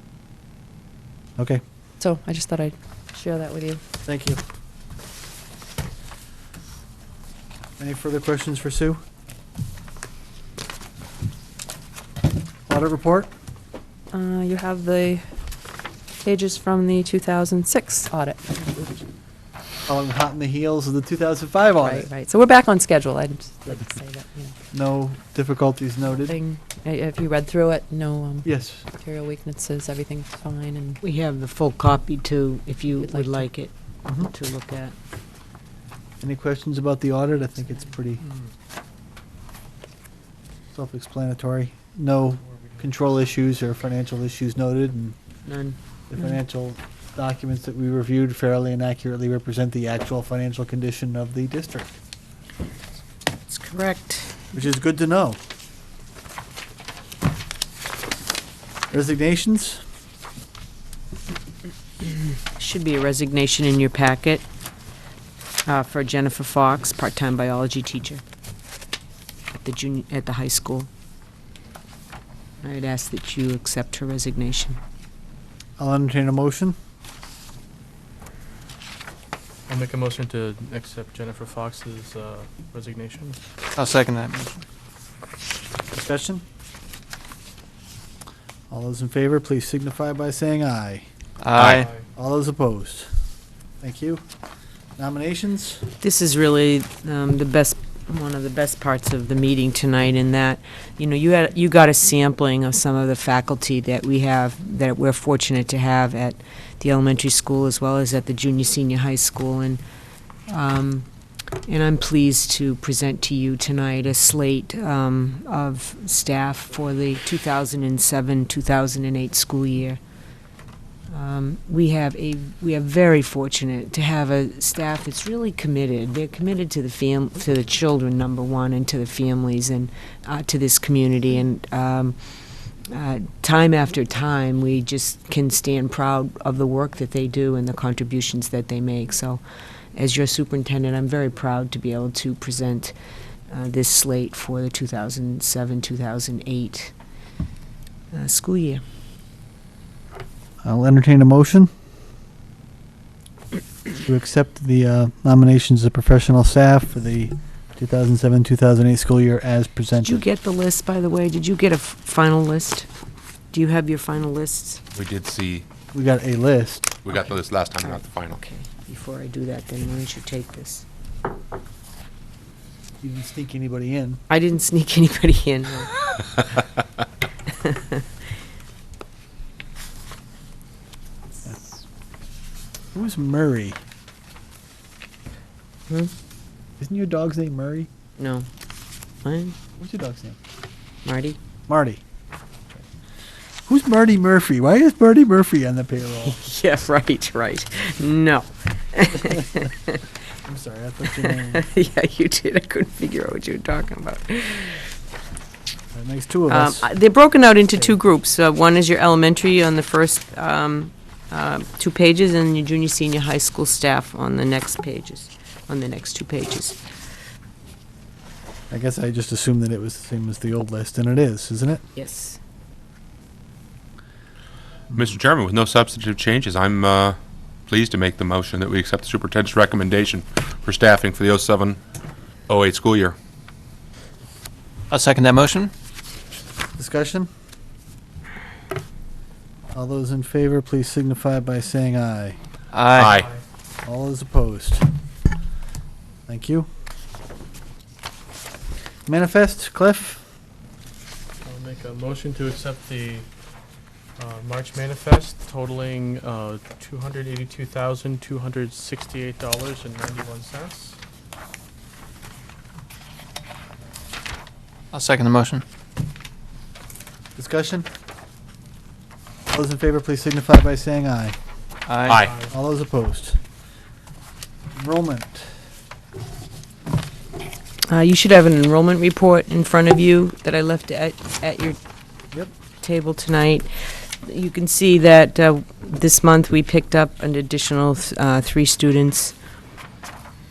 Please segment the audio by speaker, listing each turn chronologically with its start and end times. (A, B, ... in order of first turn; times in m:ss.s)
0:02.0-0:03.8 A
0:04.0-0:04.4 B
0:07.8-0:09.0 B
0:12.7-0:13.3 B
0:14.1-0:15.4 A
0:16.2-0:19.0 A
0:19.9-0:22.1 B
0:21.8-0:24.5 A
0:24.7-0:26.4 B
0:26.2-0:31.0 A
0:28.4-0:28.8 B
0:31.0-0:34.9 C
0:32.9-0:33.5 A
0:36.2-0:38.2 B
0:40.7-0:45.2 B
0:45.4-0:45.8 C
0:46.1-0:52.0 B
0:53.5-0:54.4 C
0:54.5-0:55.4 B
0:58.9-0:59.8 B
1:02.5-1:04.4 C
1:05.6-1:08.2 C
1:09.6-1:10.9 C
1:12.6-1:14.8 C
1:15.8-1:16.8 B
1:19.7-1:23.4 D
1:23.8-1:24.6 E
1:25.9-1:26.4 B
1:28.7-1:31.0 B
1:31.4-1:31.9 E
1:31.6-1:31.8 F
1:31.7-1:32.1 D
1:32.1-1:33.1 B
1:33.8-1:34.2 B
1:35.0-1:35.8 B
1:36.0-1:49.8 C
1:50.5-1:51.1 C
1:51.6-2:00.0 C
2:01.1-2:19.4 C
2:19.9-2:22.9 C
2:23.5-2:26.9 C
2:28.1-2:28.8 C
2:30.6-2:31.7 B
2:34.0-2:40.2 B
2:40.0-2:42.9 C
2:43.5-2:44.8 C
2:44.9-2:45.6 F
2:45.9-2:46.9 B
2:47.0-2:48.4 F
2:47.1-2:50.8 C
2:53.0-2:54.2 B
2:54.3-2:56.6 C
3:02.9-3:03.8 B
3:06.8-3:07.9 B
3:08.2-3:08.5 C
3:09.2-3:09.5 C
3:09.8-3:10.4 B
3:11.0-3:11.4 C
3:11.7-3:12.0 B
3:13.7-3:16.4 B
3:16.2-3:20.0 C
3:20.4-3:21.6 B
3:21.1-3:24.8 C
3:25.9-3:26.9 B
3:26.5-3:36.8 C
3:38.7-3:41.8 B
3:41.9-3:42.4 C
3:44.9-3:51.8 F
3:52.5-3:53.2 F
3:54.9-3:55.7 E
3:56.8-3:57.3 B
3:59.7-4:02.4 B
4:02.7-4:03.1 E
4:03.0-4:03.3 F
4:03.1-4:03.4 D
4:03.8-4:04.8 B
4:06.3-4:06.7 B
4:09.0-4:10.2 B
4:11.4-4:13.3 D
4:14.2-4:21.0 D
4:24.9-4:25.6 E
4:27.4-4:27.9 B
4:29.5-4:31.4 B
4:31.9-4:32.2 E
4:32.1-4:32.3 F
4:32.2-4:32.5 D
4:32.3-4:33.4 B
4:34.7-4:35.6 B
4:37.9-4:41.8 C
4:42.8-4:49.3 C